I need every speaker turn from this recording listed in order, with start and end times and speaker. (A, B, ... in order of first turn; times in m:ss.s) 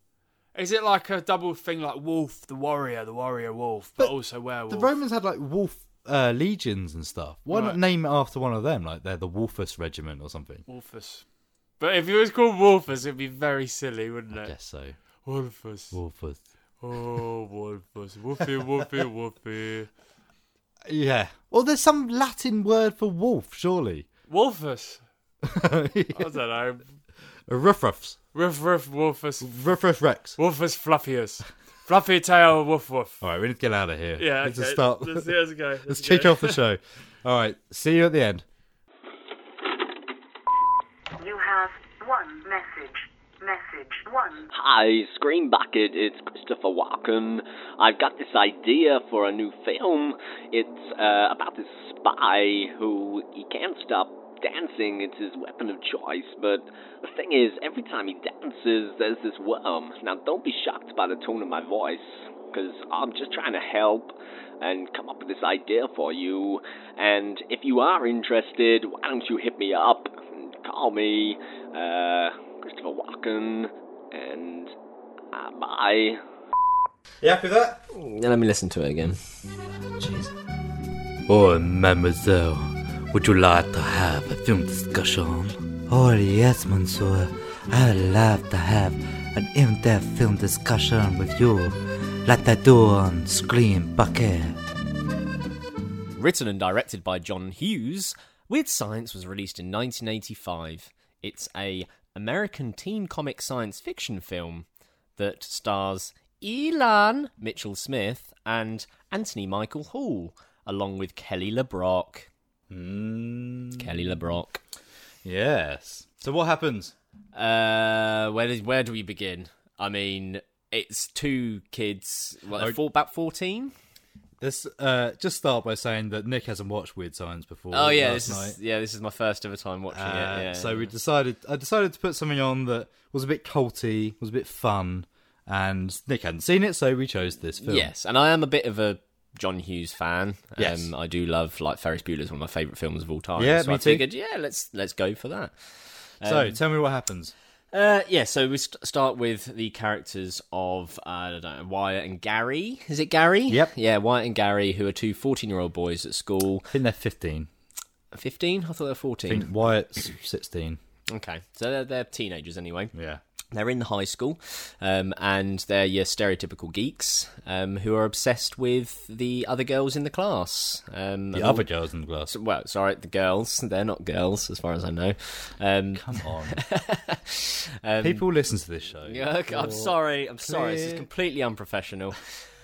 0:00.5-0:05.0 A
0:04.7-0:10.6 B
0:07.5-0:07.8 A
0:10.7-0:11.2 A
0:11.8-0:14.5 A
0:14.3-0:15.0 B
0:15.2-0:16.0 A
0:15.9-0:16.4 B
0:16.8-0:19.9 A
0:20.9-0:24.1 B
0:24.3-0:25.0 A
0:25.4-0:26.3 B
0:26.1-0:26.9 A
0:27.5-0:28.2 B
0:28.3-0:29.5 A
0:29.4-0:30.4 B
0:30.4-0:33.2 A
0:33.2-0:38.4 B
0:34.2-0:36.6 A
0:41.2-0:44.5 C
0:44.5-1:14.7 D
1:15.3-1:16.2 D
1:17.2-1:17.8 B
1:17.9-1:19.2 E
1:19.8-1:20.3 B
1:21.3-1:34.6 B
1:36.2-1:44.7 E
1:45.2-1:52.3 E
1:52.7-1:54.2 B
1:53.8-1:54.6 E
1:55.2-1:56.9 B
1:57.4-2:03.7 E
2:04.4-2:08.6 B
2:07.7-2:10.9 E
2:09.9-2:17.9 B
2:17.6-2:25.5 E
2:20.6-2:20.9 B
2:23.4-2:24.1 B
2:26.2-2:26.6 E
2:26.2-2:27.3 B
2:27.7-2:36.7 E
2:36.7-2:37.5 B
2:38.1-2:39.5 E
2:39.3-2:40.8 B
2:41.1-2:42.9 E
2:42.9-2:43.2 B
2:43.5-2:51.6 E
2:51.3-2:52.3 B
2:52.3-2:58.2 E
2:55.9-2:56.6 B
2:58.0-3:01.1 B
2:59.0-3:02.3 E